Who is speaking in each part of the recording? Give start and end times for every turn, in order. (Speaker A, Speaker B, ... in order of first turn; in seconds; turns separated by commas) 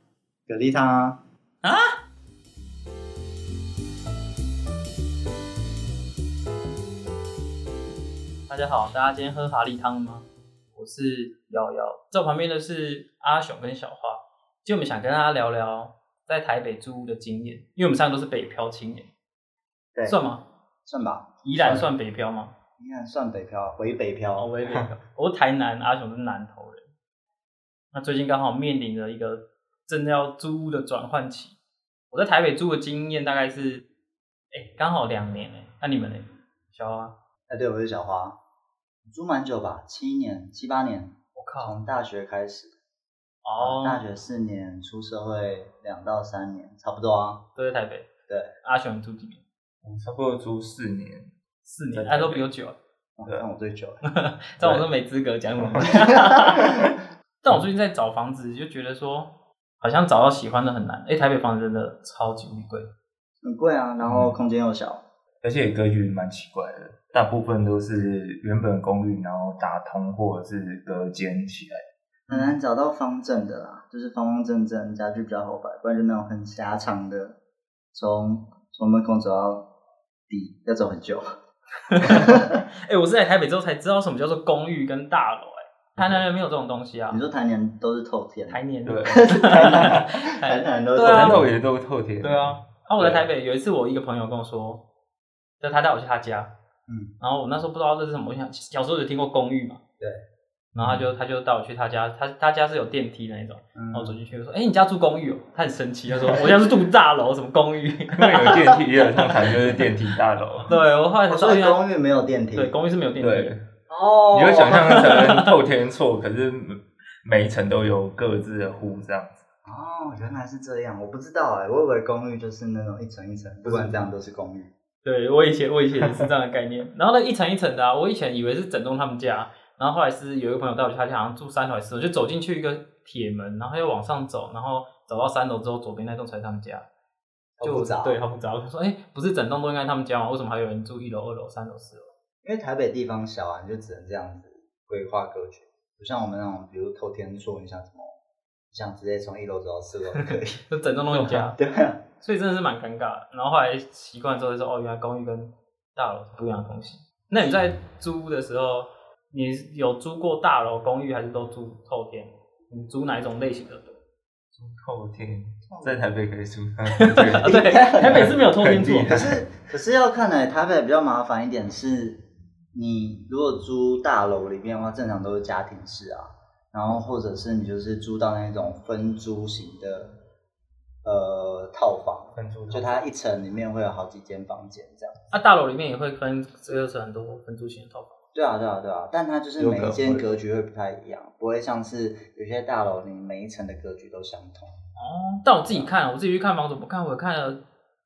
Speaker A: 0.5-1.2, Speaker B: 1.6-2.0, Speaker B: 8.5-19.1, Speaker B: 20.1-20.4, Speaker A: 20.9-21.9, Speaker B: 21.4-22.5, Speaker A: 22.8-24.5, Speaker B: 24.4-26.9, Speaker B: 27.9-31.6, Speaker B: 32.1-33.8, Speaker B: 34.5-37.1, Speaker A: 37.5-38.4, Speaker A: 39.1-42.7, Speaker B: 41.3-41.8, Speaker B: 43.4-44.0, Speaker A: 43.6-47.4, Speaker B: 47.5-48.1, Speaker B: 48.6-49.4, Speaker C: 49.8-51.3, Speaker B: 51.6-52.8, Speaker C: 51.9-52.4, Speaker A: 53.2-54.0, Speaker B: 54.0-56.8, Speaker A: 55.8-56.8, Speaker B: 57.4-62.9, Speaker A: 63.4-65.0, Speaker C: 64.0-64.3, Speaker C: 65.4-71.8, Speaker A: 72.3-77.4, Speaker A: 77.9-79.7, Speaker A: 80.3-81.2, Speaker B: 81.9-87.2, Speaker A: 82.0-82.5, Speaker A: 87.1-91.5, Speaker B: 88.5-91.4, Speaker C: 88.8-90.0, Speaker C: 91.1-93.2, Speaker B: 92.2-94.8, Speaker B: 95.6-96.5, Speaker A: 96.9-97.1, Speaker B: 97.2-99.8, Speaker B: 100.8-109.8, Speaker A: 103.7-104.2, Speaker C: 108.2-110.7, Speaker B: 110.7-111.8, Speaker A: 111.3-112.7, Speaker B: 112.5-113.5, Speaker C: 113.2-113.6, Speaker A: 113.9-115.2, Speaker C: 114.3-119.4, Speaker B: 114.8-115.5, Speaker A: 119.6-124.7, Speaker C: 123.6-124.0, Speaker B: 125.0-136.8, Speaker A: 137.6-138.2, Speaker B: 137.6-142.1, Speaker A: 142.4-148.2, Speaker A: 148.7-150.6, Speaker B: 150.2-151.6, Speaker A: 151.1-152.0, Speaker B: 152.2-164.0, Speaker C: 164.6-169.4, Speaker A: 165.7-166.1, Speaker B: 166.9-169.2, Speaker A: 167.4-168.4, Speaker A: 169.0-180.1, Speaker A: 181.0-185.2, Speaker C: 182.3-182.9, Speaker B: 185.3-188.2, Speaker A: 188.3-194.7, Speaker C: 189.6-190.2, Speaker B: 195.0-197.6